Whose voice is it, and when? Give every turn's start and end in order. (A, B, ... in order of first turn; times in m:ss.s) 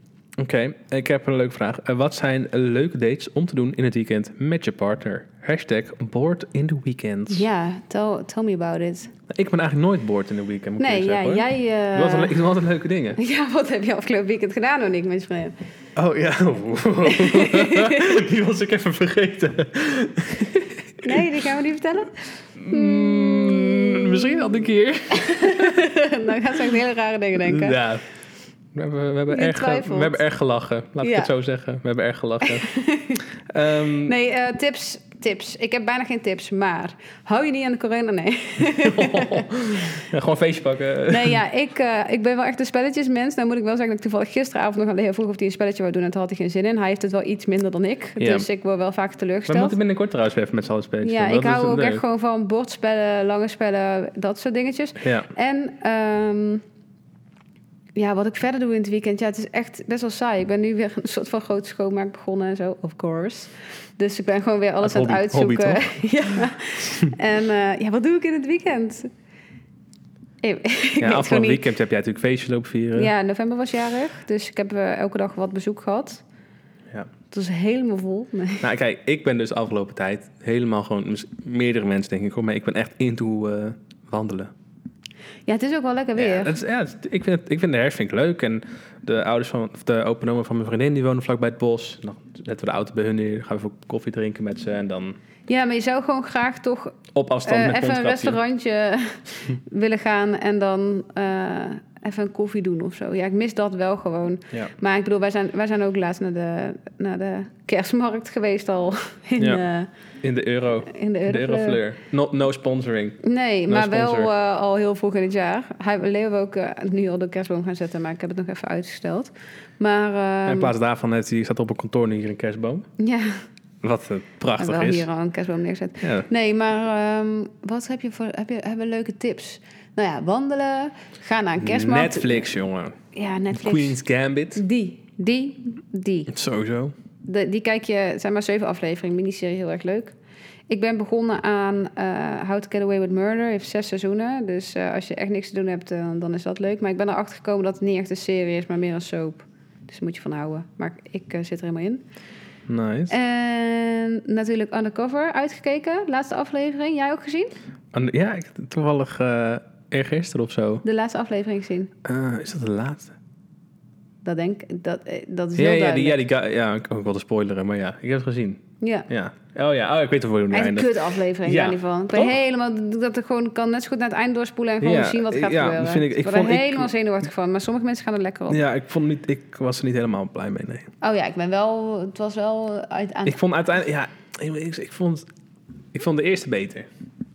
0:00.4-0:07.5 A
0:07.3-0:09.1 B
0:09.3-0:13.2 A
0:10.8-0:12.4 B
0:13.2-0:15.5 B
0:16.0-0:21.2 A
0:17.1-0:18.2 B
0:21.0-0:24.2 B
0:22.6-0:25.9 A
0:25.1-0:27.8 B
0:27.4-0:28.0 A
0:28.8-0:32.7 A
0:29.3-0:30.2 B
0:31.0-0:31.3 B
0:32.4-0:33.2 B
0:33.5-0:34.2 A
0:33.9-0:39.5 B
0:38.6-0:41.4 A
0:41.1-0:49.8 B
0:48.2-0:48.5 A
0:49.5-0:52.0 A
0:51.0-0:56.6 B
0:55.0-0:55.3 A
0:58.0-1:09.1 B
1:04.8-1:05.9 A
1:10.4-1:11.6 B
1:11.0-1:13.1 A
1:13.0-1:16.2 B
1:17.3-1:18.7 B
1:18.6-1:24.5 A
1:25.5-1:26.6 B
1:26.2-1:35.2 A
1:35.5-1:49.9 B
1:37.1-1:38.4 A
1:49.4-1:49.6 A
1:50.2-1:54.3 A
1:50.9-1:51.8 B
1:53.2-2:00.7 B
2:00.5-2:02.9 A
2:03.0-2:03.4 B
2:03.8-2:05.1 A
2:04.6-2:12.5 B
2:06.0-2:06.3 A
2:11.6-2:13.0 A
2:13.1-2:14.0 B
2:13.5-2:14.6 A
2:14.6-2:16.3 B
2:16.3-2:16.9 A
2:17.2-2:20.1 B
2:20.7-2:32.0 B
2:32.7-2:33.1 A
2:33.1-2:37.5 B
2:37.9-2:40.8 A
2:40.8-2:41.9 B
2:42.0-2:43.1 A
2:44.2-2:46.2 B
2:45.6-2:52.4 A
2:48.8-2:49.1 B
2:50.5-2:58.6 B
2:54.8-2:56.9 A
2:58.5-3:00.9 A
3:01.0-3:03.4 B
3:03.2-3:05.3 A
3:05.9-3:06.9 A